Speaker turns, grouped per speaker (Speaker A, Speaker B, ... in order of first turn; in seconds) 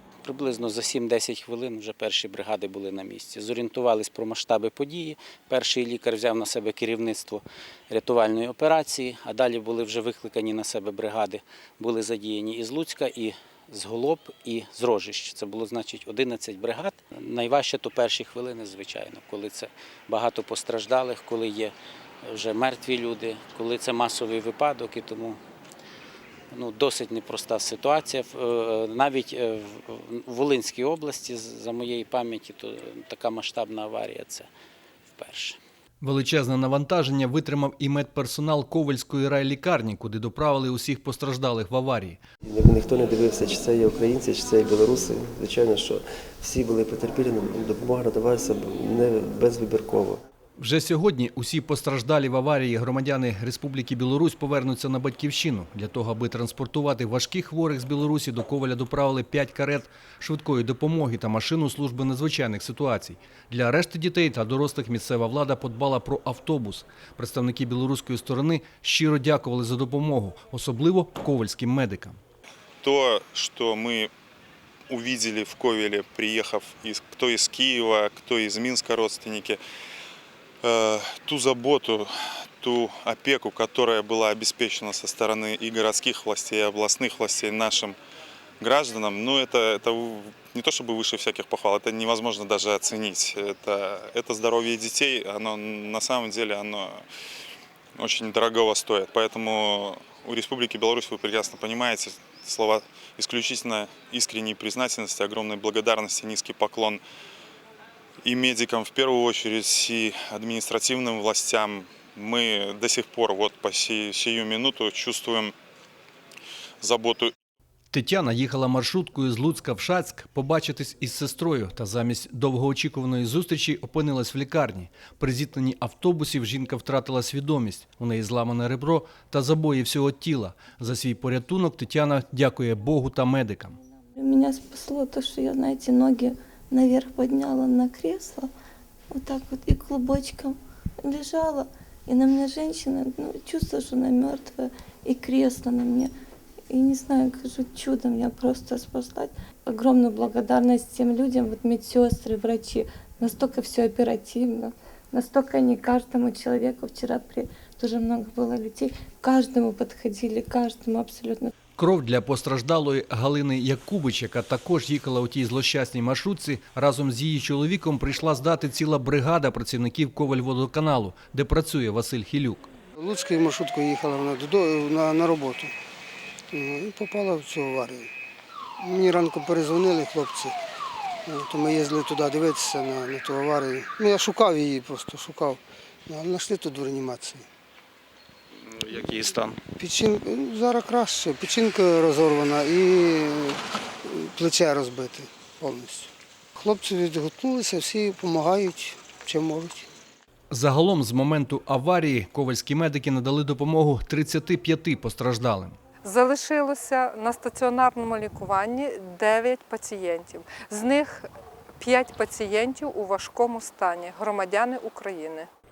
Speaker A: 0.2-25.4, 26.5-34.5, 35.2-35.6
Speaker B: 36.0-42.2, 50.6-72.2, 117.9-133.8, 161.8-172.7, 200.5-205.8
Speaker C: 42.4-50.2
Speaker D: 72.8-74.1, 74.9-79.6, 80.6-82.1, 82.6-88.0, 88.6-97.0, 98.0-107.0, 108.2-115.5, 116.8-117.3
Speaker E: 134.2-138.5, 139.1-146.1, 146.7-161.5
Speaker F: 173.0-175.7, 176.5-178.1, 178.8-180.6, 181.3-187.5, 189.8-199.9
Speaker G: 206.1-211.2, 211.8-215.5